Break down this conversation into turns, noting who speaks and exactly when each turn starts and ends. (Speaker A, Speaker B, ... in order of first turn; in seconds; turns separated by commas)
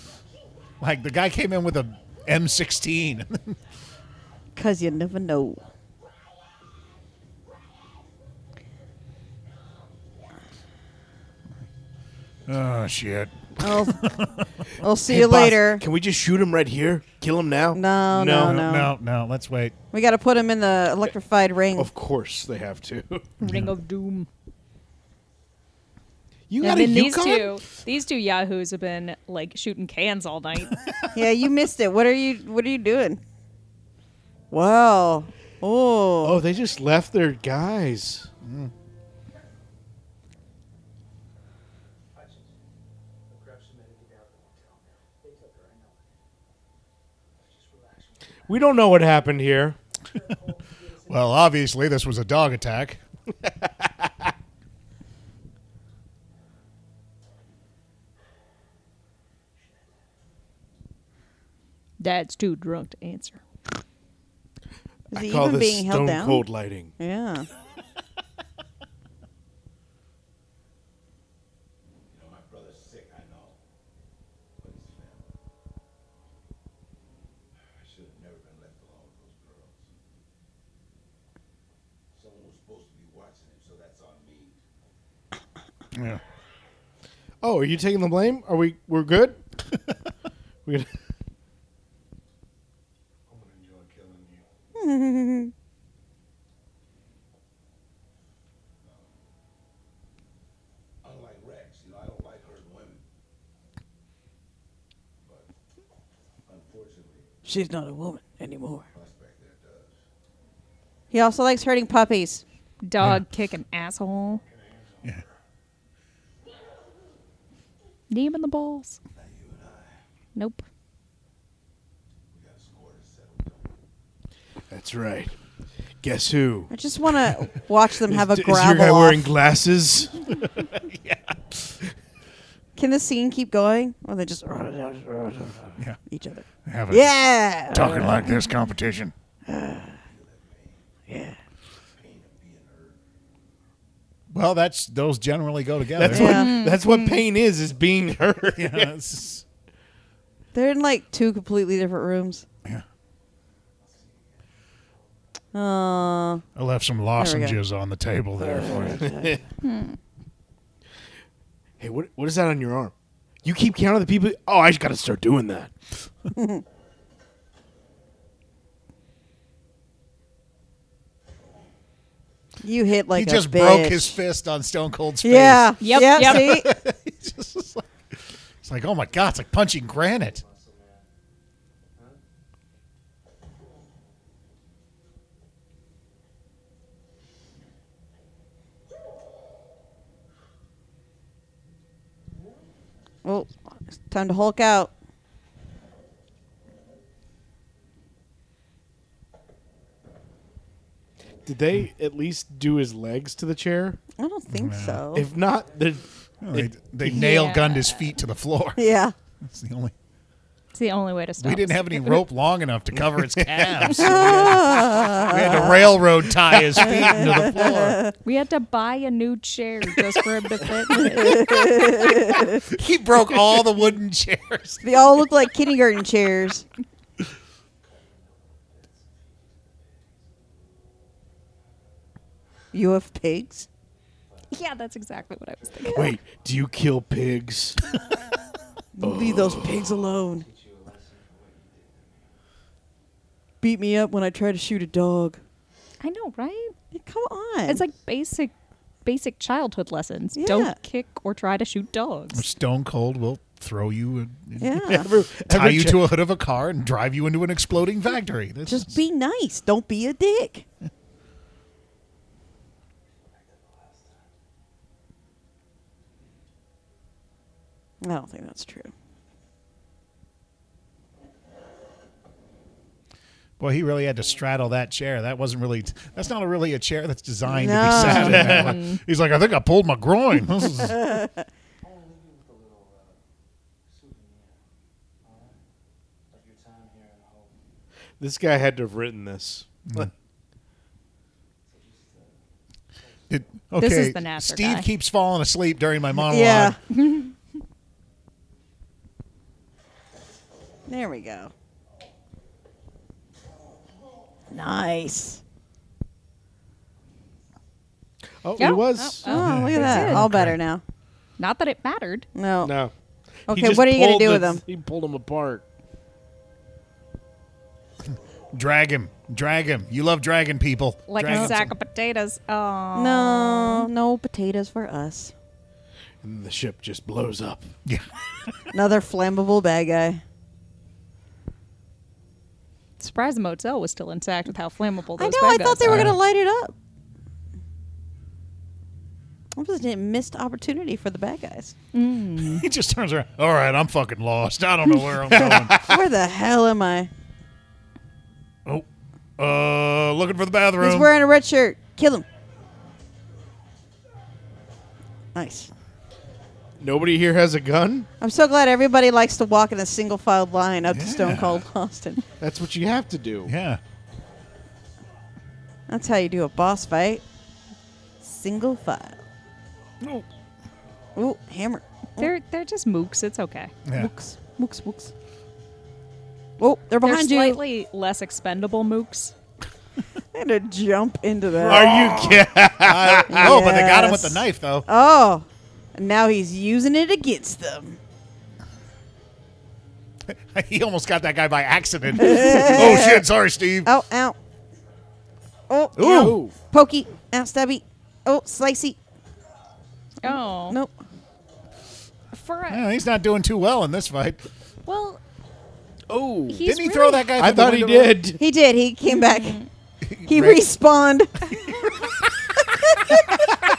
Speaker A: 0.8-3.6, Speaker B: 4.6-5.6, Speaker A: 12.5-14.5, Speaker B: 13.6-14.2, Speaker B: 14.8-15.8, Speaker C: 15.1-18.6, Speaker B: 17.8-18.9, Speaker A: 18.4-19.8, Speaker B: 19.9-21.9, Speaker C: 21.8-23.3, Speaker D: 23.4-24.3, Speaker A: 23.4-23.7, Speaker C: 26.5-27.6, Speaker D: 26.6-30.8, Speaker B: 31.1-33.2, Speaker B: 34.5-36.4, Speaker C: 36.2-38.3, Speaker A: 38.4-38.7, Speaker E: 42.1-42.5, Speaker E: 43.3-46.1, Speaker E: 47.4-49.4, Speaker C: 48.5-49.8, Speaker E: 50.0-51.5, Speaker A: 51.1-53.0, Speaker D: 62.0-63.4, Speaker B: 65.1-66.5, Speaker C: 65.1-66.9, Speaker B: 67.0-67.5, Speaker F: 72.1-73.6, Speaker F: 74.6-75.3, Speaker F: 77.8-80.0, Speaker F: 82.1-84.6, Speaker A: 85.9-86.2, Speaker C: 87.4-89.4, Speaker F: 93.3-94.4, Speaker B: 94.8-95.5, Speaker F: 98.8-99.1, Speaker F: 101.0-103.0, Speaker F: 105.2-105.5, Speaker F: 106.5-107.3, Speaker B: 107.5-108.9, Speaker F: 108.9-110.0, Speaker B: 111.1-112.4, Speaker D: 112.8-114.4, Speaker A: 113.0-113.2, Speaker F: 114.4-115.3, Speaker D: 118.1-119.0, Speaker F: 119.2-120.0, Speaker D: 120.3-120.6, Speaker F: 122.3-123.8, Speaker C: 124.7-125.3, Speaker C: 126.0-126.7, Speaker B: 126.7-129.2, Speaker C: 128.1-130.2, Speaker A: 130.6-131.8, Speaker B: 132.8-138.4, Speaker A: 136.7-137.1, Speaker A: 137.7-139.1, Speaker B: 139.5-140.0, Speaker F: 140.1-140.9, Speaker B: 141.1-141.4, Speaker F: 141.9-143.0, Speaker A: 144.3-146.4, Speaker C: 145.9-148.9, Speaker B: 146.1-146.6, Speaker D: 146.2-147.2, Speaker A: 148.6-149.4, Speaker B: 150.5-152.4, Speaker B: 155.5-156.4, Speaker A: 156.6-159.1, Speaker B: 157.2-157.6, Speaker B: 158.4-159.4, Speaker C: 158.9-159.4, Speaker D: 159.6-160.0, Speaker C: 161.8-162.9, Speaker C: 163.4-165.7, Speaker B: 166.3-166.6, Speaker B: 172.6-174.2, Speaker A: 173.1-180.4, Speaker B: 175.2-176.7, Speaker D: 175.8-176.6, Speaker E: 180.2-181.1, Speaker B: 193.2-194.9, Speaker C: 201.5-204.0, Speaker B: 204.2-205.3, Speaker A: 204.5-205.1, Speaker C: 205.1-207.3, Speaker A: 206.4-208.8, Speaker D: 207.1-208.1, Speaker B: 208.8-209.2, Speaker A: 209.4-209.9, Speaker D: 210.7-212.2, Speaker A: 211.4-218.0, Speaker C: 212.9-214.5, Speaker B: 213.9-215.9, Speaker C: 216.4-217.6, Speaker B: 216.8-218.2, Speaker D: 218.2-222.1, Speaker B: 221.0-222.7, Speaker A: 222.7-224.9, Speaker B: 224.8-226.7, Speaker E: 227.8-230.2, Speaker B: 232.7-233.7, Speaker E: 234.3-234.6, Speaker D: 234.5-236.2, Speaker E: 235.6-236.0, Speaker C: 235.9-237.8, Speaker B: 239.0-240.5, Speaker C: 239.0-239.9, Speaker E: 240.4-242.3, Speaker B: 243.6-245.4, Speaker D: 246.0-246.7, Speaker B: 246.9-247.8, Speaker D: 247.7-248.5, Speaker D: 249.0-252.4, Speaker B: 250.4-250.8, Speaker A: 252.3-259.0, Speaker B: 254.6-255.1, Speaker C: 254.8-256.2, Speaker B: 258.7-260.7, Speaker E: 263.2-264.3, Speaker B: 268.0-268.9, Speaker A: 273.6-281.0, Speaker B: 277.4-278.6, Speaker C: 277.9-278.8, Speaker D: 278.5-279.0, Speaker B: 280.8-281.4, Speaker E: 281.8-283.2, Speaker E: 283.9-284.6, Speaker E: 285.2-285.6, Speaker E: 286.3-287.6, Speaker C: 288.2-290.1, Speaker E: 291.7-292.4, Speaker E: 292.9-293.5, Speaker A: 293.3-296.8, Speaker D: 293.8-294.9, Speaker B: 296.2-296.8, Speaker D: 296.9-297.3, Speaker B: 300.9-301.5, Speaker B: 304.5-305.4, Speaker C: 308.4-309.3, Speaker D: 308.6-310.3, Speaker B: 309.0-310.8, Speaker A: 309.3-310.6, Speaker D: 311.4-312.3, Speaker B: 312.4-312.8, Speaker C: 312.6-312.9, Speaker B: 313.5-314.6, Speaker C: 313.5-315.6, Speaker A: 318.5-321.7, Speaker D: 321.1-323.9, Speaker B: 322.9-325.3, Speaker C: 326.2-327.7, Speaker A: 327.9-328.7, Speaker B: 328.7-330.2, Speaker D: 333.0-336.1, Speaker B: 335.2-336.7, Speaker A: 335.9-336.2, Speaker B: 339.6-341.8, Speaker D: 341.9-342.6, Speaker A: 342.5-345.9, Speaker C: 345.3-345.9, Speaker B: 345.8-347.1, Speaker A: 349.4-351.1, Speaker B: 350.8-352.3, Speaker B: 355.4-355.7, Speaker C: 356.8-358.1, Speaker B: 358.2-362.2, Speaker A: 360.9-361.7, Speaker C: 362.4-363.5, Speaker A: 363.5-363.8, Speaker B: 365.9-367.2, Speaker B: 368.2-369.2, Speaker A: 370.0-370.3, Speaker B: 371.2-372.3, Speaker D: 372.2-373.8, Speaker A: 373.9-374.1, Speaker B: 373.9-375.1, Speaker B: 376.6-377.6, Speaker D: 377.0-379.3, Speaker B: 380.3-382.0, Speaker C: 381.6-383.6, Speaker A: 381.7-384.9, Speaker B: 383.3-388.0, Speaker A: 390.3-393.9, Speaker B: 392.2-393.3, Speaker B: 393.9-394.4, Speaker B: 395.7-399.0, Speaker A: 396.0-396.4, Speaker C: 396.0-396.6, Speaker D: 400.2-400.8, Speaker B: 400.2-400.9, Speaker D: 402.3-402.9, Speaker A: 402.7-404.5, Speaker D: 404.9-405.2, Speaker C: 406.1-406.7, Speaker D: 406.5-407.3, Speaker A: 406.6-408.2, Speaker C: 407.4-408.4, Speaker B: 408.4-409.6, Speaker D: 409.1-409.7, Speaker A: 410.0-410.7, Speaker B: 410.3-411.9, Speaker B: 412.6-413.3